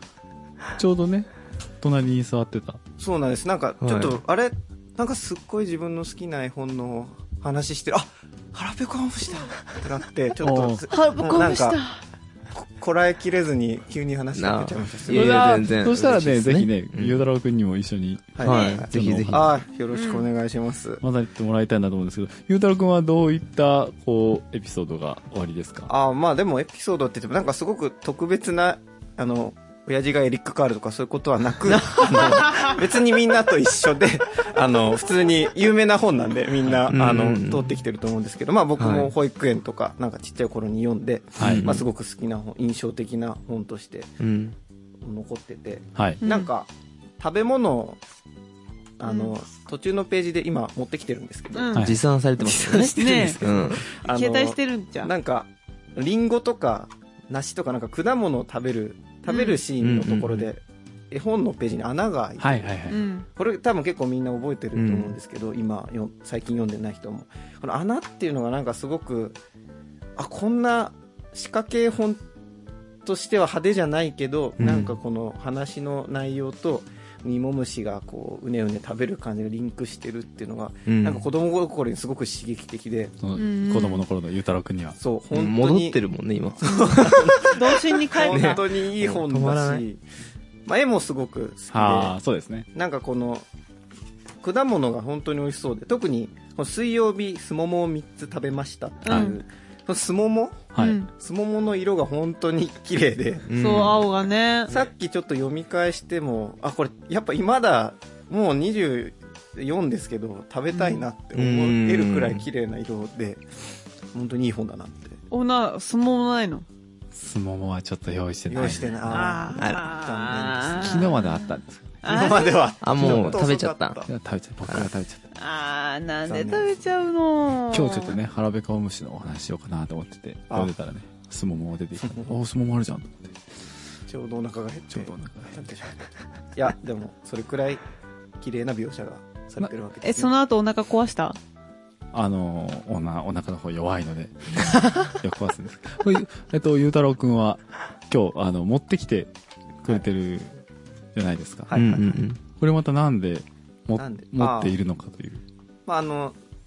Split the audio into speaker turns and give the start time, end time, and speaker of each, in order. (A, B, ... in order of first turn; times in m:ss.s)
0:00.8-0:02.8 A
0:03.0-0:11.8 B
0:03.8-0:04.2 C
0:10.4-0:10.8 A
0:10.9-0:12.0 D
0:12.5-0:15.4 B
0:14.3-0:17.2 C
0:15.1-0:18.4 A
0:18.3-0:21.0 B
0:18.4-0:19.5 C
0:18.5-0:18.8 D
0:18.9-0:19.5 A
0:19.9-0:20.2 D
0:21.0-0:25.9 A
0:25.9-0:44.1 B
0:31.9-0:32.7 D
0:36.8-0:37.8 C
0:38.8-0:39.1 C
0:41.4-0:41.7 A
0:41.4-0:41.8 C
0:44.2-0:44.6 C
0:45.0-0:48.0 B
0:45.9-0:46.2 A
0:46.2-0:46.5 D
0:49.0-0:51.7 B
0:49.0-0:49.3 D
0:51.5-0:51.9 D
0:51.7-0:52.0 A
0:51.8-0:53.8 C
0:52.4-1:09.4 B
0:52.5-0:55.1 D
0:59.3-0:59.6 D
0:59.8-1:00.5 C
1:02.4-1:03.0 A
1:02.9-1:03.2 D
1:04.7-1:05.1 C
1:10.2-1:12.2 B
1:13.0-1:23.1 B
1:14.6-1:15.0 C
1:20.9-1:21.2 C
1:23.2-1:25.0 A
1:23.4-1:24.0 D
1:25.0-1:26.0 B
1:25.3-1:27.6 C
1:26.6-1:30.0 B
1:26.6-1:28.6 D
1:28.3-1:29.8 C
1:30.6-1:32.1 B
1:31.7-1:32.7 A
1:32.7-1:33.4 B
1:34.4-1:43.5 B
1:39.0-1:39.4 D
1:40.7-1:41.0 A
1:40.8-1:41.1 D
1:43.5-1:44.0 C
1:43.6-1:44.7 D
1:44.7-1:53.4 B
1:50.7-1:51.0 D
1:51.3-1:52.4 C
1:54.1-1:55.2 B
1:55.3-1:56.6 D
1:57.1-1:59.0 A
1:58.5-2:01.1 B
1:59.1-2:01.3 D
1:59.6-1:59.8 C
2:00.8-2:02.0 A
2:02.0-2:02.7 D
2:02.0-2:04.1 B
2:02.8-2:04.0 C
2:03.0-2:03.4 A
2:04.0-2:05.2 A
2:05.3-2:08.2 D
2:06.3-2:06.8 B
2:07.7-2:13.4 A
2:12.0-2:12.3 B
2:14.1-2:17.8 B
2:14.9-2:15.6 A
2:18.4-2:20.3 B
2:20.0-2:21.4 D
2:22.1-2:29.3 A
2:29.8-2:30.5 A
2:31.1-2:31.9 A
2:31.7-2:32.2 B
2:31.7-2:32.4 C
2:32.6-2:35.4 A
2:34.0-2:34.7 B
2:35.8-2:36.4 B